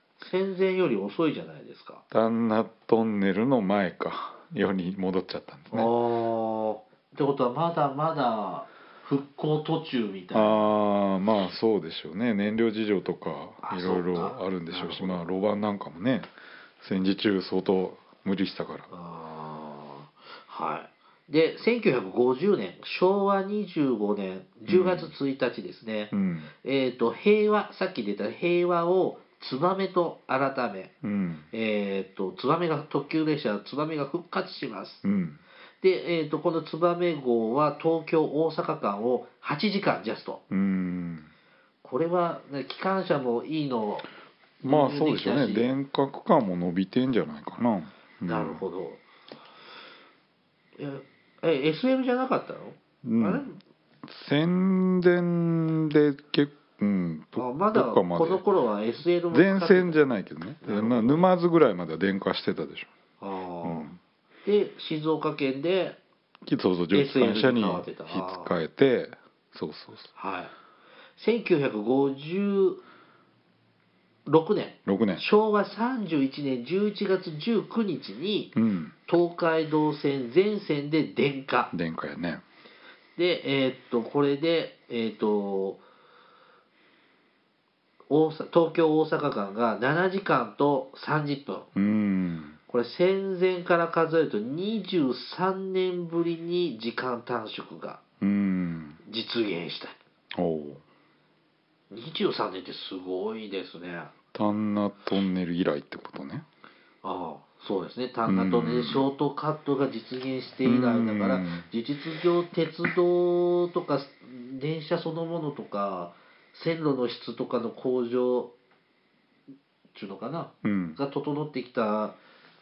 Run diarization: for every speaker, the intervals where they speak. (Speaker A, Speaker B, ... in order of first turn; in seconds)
Speaker A: 0.2-2.0, 5.7-10.7, 13.6-15.2, 18.9-30.9, 31.5-35.0, 35.8-40.4, 41.8-44.1, 44.6-45.7, 48.3-49.0, 50.8-53.6, 57.4-60.0, 60.6-61.3, 63.2-63.9, 64.4-66.0, 66.9-68.5, 70.2-70.5, 71.2-72.8, 74.2-78.5, 79.1-81.7, 83.2-85.8, 88.1-91.7, 92.7-98.0, 99.0-100.0, 101.9-104.1, 107.0-118.5, 119.9-122.2
Speaker B: 2.1-5.9, 10.3-16.3, 16.8-18.9, 24.7-25.1, 26.1-26.5, 31.0-31.5, 35.0-35.4, 40.5-41.3, 44.6-48.6, 53.0-53.5, 54.0-58.4, 59.3-62.9, 63.6-64.0, 66.4-70.1, 74.8-75.2, 78.5-78.9, 81.7-82.4, 91.7-92.6, 98.2-99.0, 100.3-100.8, 104.3-106.4, 108.2-109.0, 110.6-111.7, 120.6-121.0